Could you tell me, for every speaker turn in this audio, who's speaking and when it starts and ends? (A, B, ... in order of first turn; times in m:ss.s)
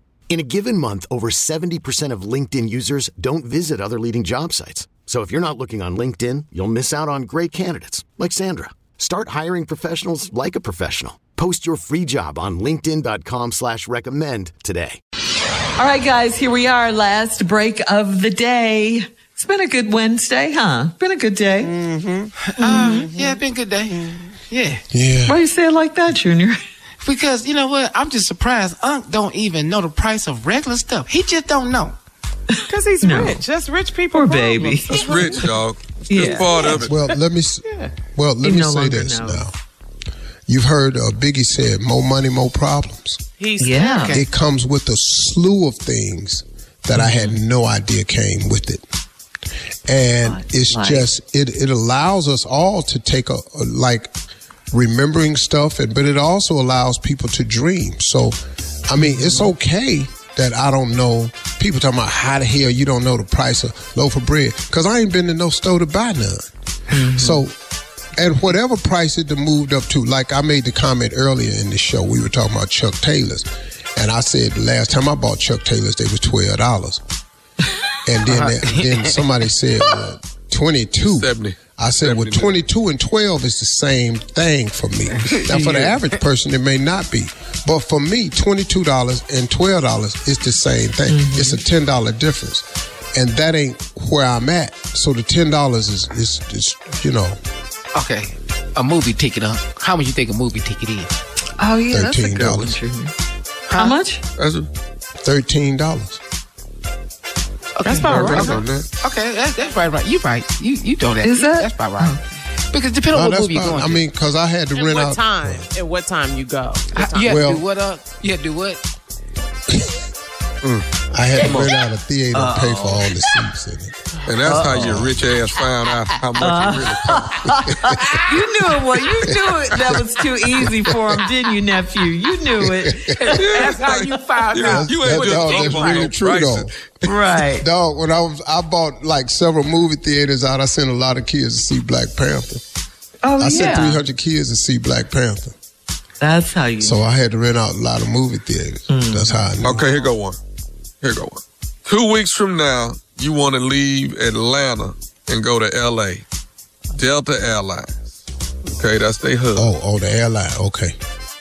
0:00.3-0:15.0 A
0:15.8-0:21.7 B
0:21.9-0:22.2 C
0:22.4-0:24.8 D
0:22.6-0:23.2 B
0:24.9-0:25.4 E
0:25.3-0:26.6 B
0:27.0-0:32.0 D
0:32.7-0:35.4 C
0:33.0-0:33.4 B
0:34.1-0:35.4 B
0:35.0-0:37.0 F
0:36.1-0:36.7 B
0:36.2-0:36.7 C
0:36.7-0:39.5 E
0:38.4-0:39.4 B
0:40.5-0:43.2 E
0:43.4-0:44.2 C
0:43.6-0:44.2 B
0:44.0-0:48.8 E
0:46.9-0:47.4 B
0:49.9-0:54.1 E
0:50.2-0:51.1 B
0:54.7-0:58.4 E
0:58.9-1:07.5 E
0:59.0-0:59.5 B
1:06.9-1:07.4 B
1:08.2-1:17.0 E
1:18.0-1:37.4 E
1:18.3-1:19.1 D
1:21.1-1:22.6 F
1:25.6-1:25.9 D
1:31.1-1:31.6 B
1:37.9-1:41.1 D
1:41.6-1:43.1 B
1:41.9-1:42.8 E
1:43.7-1:44.0 D
1:43.7-1:44.2 B
1:44.4-1:44.7 F
1:45.2-1:46.2 E
1:47.8-1:52.2 D
1:47.8-1:48.1 C
1:47.9-1:48.9 F
1:51.2-1:52.2 B
1:52.7-1:54.0 D
1:53.1-1:55.7 E
1:54.8-1:57.5 C
1:56.9-1:58.8 D
1:57.2-1:57.7 E
1:59.7-2:00.0 E
2:01.1-2:05.3 E
2:01.4-2:01.7 F
2:04.2-2:07.3 F
2:06.4-2:14.2 B
2:07.5-2:08.2 E
2:09.2-2:11.2 E
2:12.6-2:13.2 E
2:13.1-2:16.1 D
2:13.3-2:17.4 F
2:14.6-2:16.7 E
2:17.1-2:17.7 B
2:17.6-2:22.6 E
2:23.2-2:24.0 B
2:23.4-2:25.5 E
2:26.2-2:27.1 B
2:26.8-2:29.9 E
2:28.9-2:29.4 B
2:29.6-2:30.4 F
2:31.0-2:36.2 F
2:36.9-2:38.0 F
2:38.7-2:39.7 F
2:39.6-2:41.0 E